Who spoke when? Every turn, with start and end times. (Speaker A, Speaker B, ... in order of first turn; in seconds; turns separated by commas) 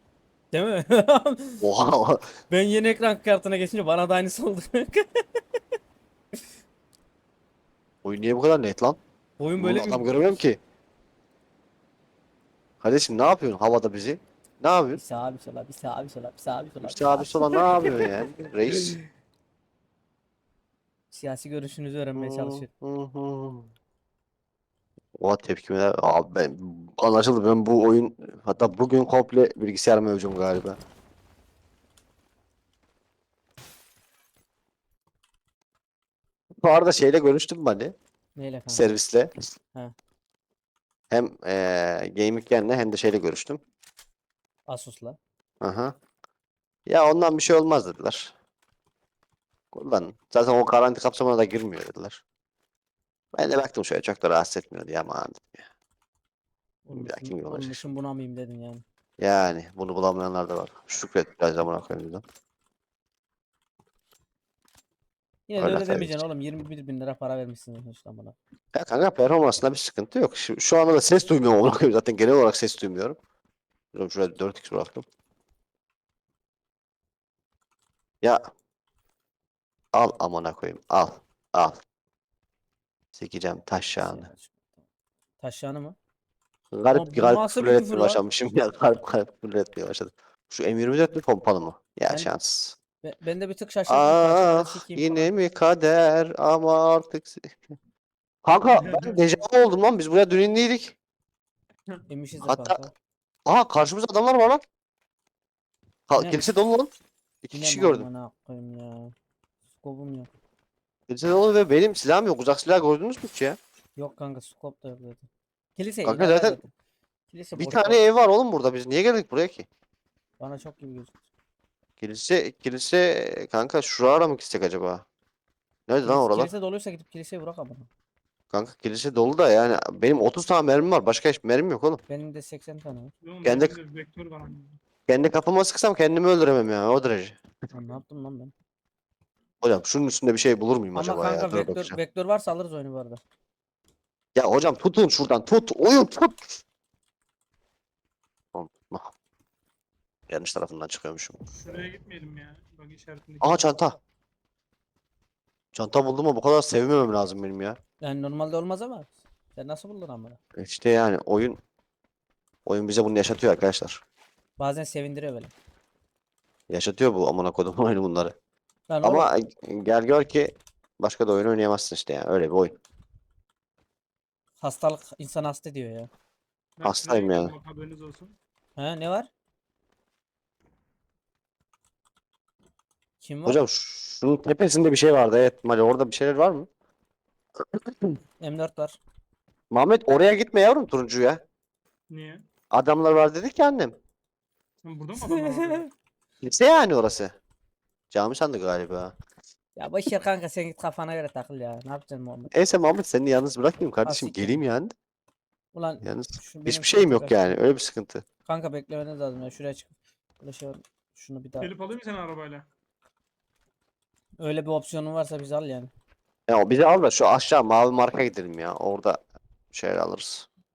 Speaker A: 0.5-1.6, Speaker B: 1.6-2.3, Speaker A: 2.5-5.6, Speaker B: 8.0-9.0, Speaker A: 9.4-10.4, Speaker B: 9.6-10.6, Speaker B: 12.8-15.0, Speaker A: 14.9-18.1, Speaker B: 16.8-19.0, Speaker A: 21.1-22.7, Speaker B: 22.2-23.7, Speaker B: 25.2-30.8, Speaker B: 36.6-37.9, Speaker A: 38.4-38.9, Speaker B: 38.7-39.5, Speaker B: 41.1-43.6, Speaker A: 44.7-45.2, Speaker B: 45.6-46.0, Speaker B: 46.9-48.3, Speaker B: 49.7-52.2, Speaker B: 53.3-55.7, Speaker A: 56.9-58.8, Speaker B: 56.9-57.8, Speaker B: 59.2-62.2, Speaker A: 65.5-68.4, Speaker B: 65.6-66.2, Speaker B: 68.8-73.2, Speaker B: 73.9-75.0, Speaker B: 79.9-81.8, Speaker B: 83.2-84.3, Speaker A: 84.0-84.7, Speaker A: 85.4-86.0, Speaker B: 86.7-92.8, Speaker A: 86.9-88.2, Speaker A: 93.0-95.3, Speaker B: 93.9-97.6, Speaker B: 98.5-101.0, Speaker C: 98.7-99.2, Speaker A: 102.1-102.9, Speaker B: 102.4-102.8, Speaker B: 103.5-104.6, Speaker B: 106.1-106.9, Speaker A: 106.2-106.5, Speaker B: 107.4-108.1, Speaker A: 107.5-109.1, Speaker A: 109.8-110.3, Speaker B: 111.1-113.6, Speaker A: 114.0-116.7, Speaker B: 116.0-116.6, Speaker A: 117.3-118.0, Speaker B: 117.6-119.7, Speaker A: 120.4-121.2, Speaker B: 122.0-125.0, Speaker B: 125.9-126.5, Speaker A: 126.0-127.9, Speaker B: 128.5-132.0, Speaker A: 132.1-133.1, Speaker C: 133.2-134.8, Speaker B: 133.4-133.8, Speaker B: 135.1-137.4, Speaker A: 137.7-138.5, Speaker B: 139.6-142.0, Speaker A: 140.9-143.2, Speaker B: 144.3-146.6, Speaker B: 148.5-149.1, Speaker B: 150.3-151.4, Speaker C: 151.5-153.8, Speaker B: 153.4-154.0, Speaker B: 155.7-157.8, Speaker A: 158.0-160.4, Speaker B: 160.6-161.6, Speaker B: 162.7-164.0, Speaker A: 164.6-165.5, Speaker B: 166.7-168.3, Speaker A: 168.9-169.3, Speaker B: 169.0-172.8, Speaker A: 174.6-176.1, Speaker C: 176.8-178.3, Speaker B: 176.8-177.5, Speaker A: 178.8-179.3, Speaker A: 183.2-183.6, Speaker B: 183.5-186.7, Speaker A: 188.4-189.0, Speaker B: 189.7-191.4, Speaker C: 192.1-192.4, Speaker B: 192.7-194.0, Speaker C: 194.8-195.9, Speaker A: 195.2-195.9, Speaker B: 196.4-197.3, Speaker B: 198.1-199.1, Speaker A: 199.8-202.5, Speaker B: 202.5-204.9, Speaker A: 204.1-204.6, Speaker A: 205.7-207.4, Speaker B: 206.0-208.2, Speaker A: 208.5-211.7, Speaker C: 211.6-212.7, Speaker A: 214.4-215.9, Speaker B: 216.5-219.2, Speaker B: 219.7-220.5